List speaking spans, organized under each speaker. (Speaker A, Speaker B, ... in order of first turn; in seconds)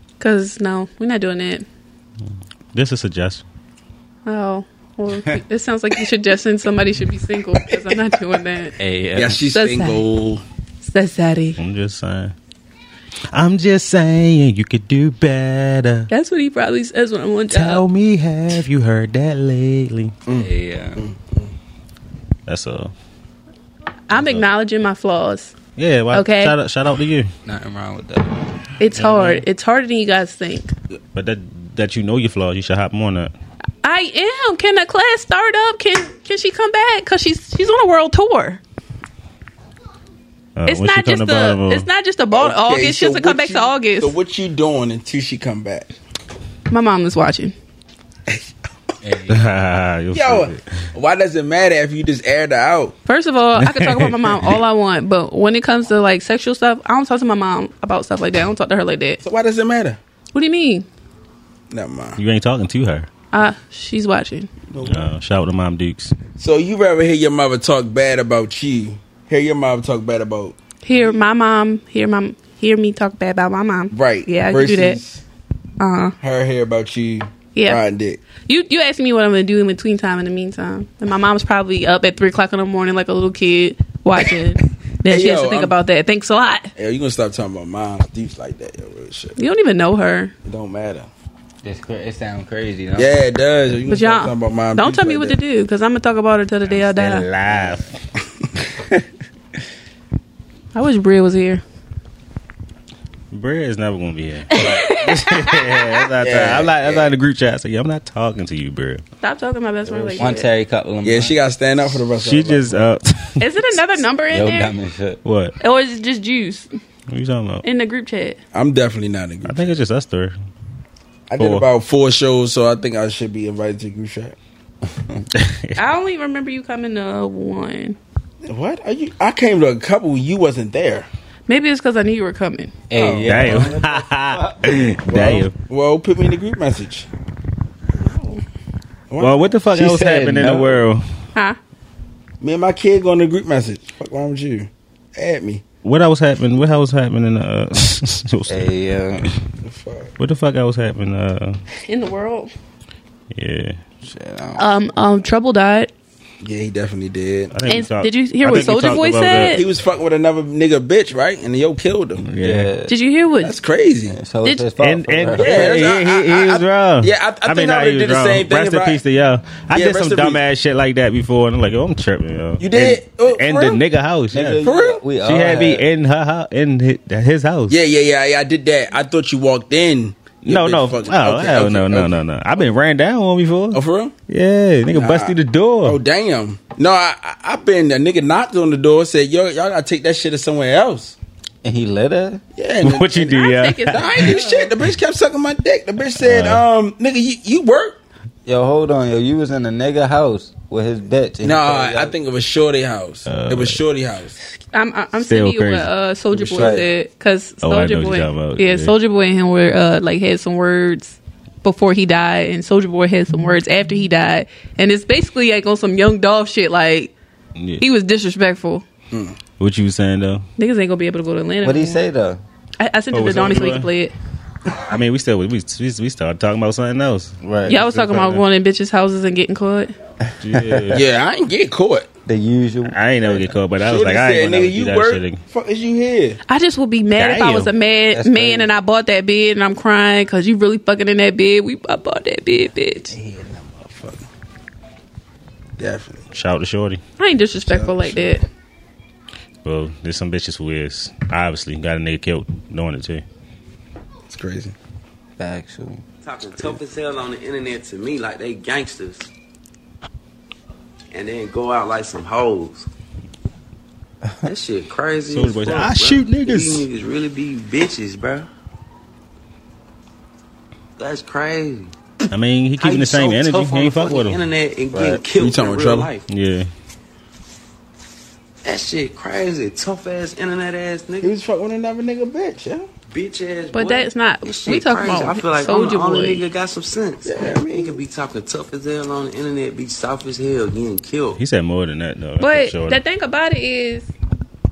Speaker A: 0.2-1.7, 4.3-8.8, 9.5-10.0, 10.8-11.6, 16.1-17.8, 24.1-25.5, 26.1-26.6, 28.8-30.8, 33.8-38.6, 40.7-44.2, 46.7-47.5, 53.1-59.2, 60.3-60.9, 63.3-64.5, 70.8-75.0, 75.8-76.2, 77.5-77.8, 78.4-86.7, 89.4-90.3, 93.9-97.3, 100.7-101.6, 104.5-106.0, 109.2-110.5, 113.4-114.7, 115.6-116.7, 117.6-118.4, 125.8-128.0, 131.5-132.8, 138.0-138.4, 151.8-152.5, 154.6-155.9, 157.7-159.7, 162.9-163.5, 193.2-194.7, 204.7-217.1, 217.8-218.8, 220.6-222.0, 222.8-224.1, 227.7-229.9, 236.5-243.1, 247.2-248.4, 283.7-286.4, 292.4-294.1
Speaker B: 2.7-3.5, 11.6-12.3, 13.3-16.1, 17.5-20.1, 22.5-22.9, 24.1-24.5, 25.8-27.3, 29.0-29.4, 31.1-33.3, 40.6-41.9, 49.3-50.9, 53.6-54.6, 62.2-63.1, 64.8-66.1, 96.7-97.9, 103.3-109.0, 112.2-113.6, 115.2-115.6, 117.1-117.7, 119.5-120.3, 121.4-121.7, 125.3-125.8, 133.3-135.5, 139.2-141.1, 145.8-148.7, 150.2-151.6, 153.3-153.8, 157.5-159.6, 162.2-162.7, 164.8-174.7, 175.2-177.8, 180.4-186.0, 192.8-194.4, 196.2-196.6, 203.3-203.8, 205.2-205.9, 207.6-208.9, 217.6-217.8, 219.6-220.5, 223.1-223.9, 224.8-228.4, 230.4-231.0, 232.9-235.4, 237.2-237.7, 246.3-247.0, 249.6-253.2, 265.3-266.9, 272.3-274.4, 276.3-276.7, 291.4-293.0
Speaker C: 5.1-5.4, 8.8-9.4, 20.4-21.0, 27.5-28.5, 49.0-49.5, 91.6-93.2, 109.9-111.4, 114.3-115.2, 132.9-134.6, 139.7-140.8, 148.5-149.3, 154.0-154.7, 162.4-162.9, 164.1-165.8, 174.3-175.9, 191.6-192.4, 198.5-202.2, 206.4-206.9, 221.6-222.4, 227.4-227.8, 230.5-231.0, 232.3-233.5, 238.1-238.8, 255.4-256.0, 274.9-275.2
Speaker D: 9.2-10.4, 20.3-21.5, 42.3-45.9, 50.1-53.0, 59.2-60.0, 61.7-62.2, 64.7-65.1, 66.4-71.2, 73.9-75.2, 76.2-78.2, 85.1-85.7, 86.8-89.4, 90.4-91.1, 93.0-95.4, 106.2-107.1, 111.0-112.8, 118.5-119.8, 121.3-124.4, 128.5-131.1, 132.9-133.8, 135.1-137.1, 139.1-139.5, 142.4-145.6, 149.6-150.1, 156.4-157.6, 158.5-162.2, 163.4-164.2, 165.4-169.0, 169.7-170.4, 172.6-173.8, 174.6-175.0, 177.7-182.2, 183.7-184.2, 184.9-191.2, 192.6-193.4, 193.9-198.0, 201.4-204.4, 219.1-219.4, 230.9-232.1, 233.8-236.4, 243.1-244.3, 245.8-246.3, 247.7-248.4, 254.3-254.8, 275.4-276.1, 281.2-282.9, 287.2-288.0
Speaker E: 256.2-259.3, 261.1-262.9, 264.4-268.5, 271.0-271.9, 272.8-276.3, 278.6-281.3, 283.1-291.4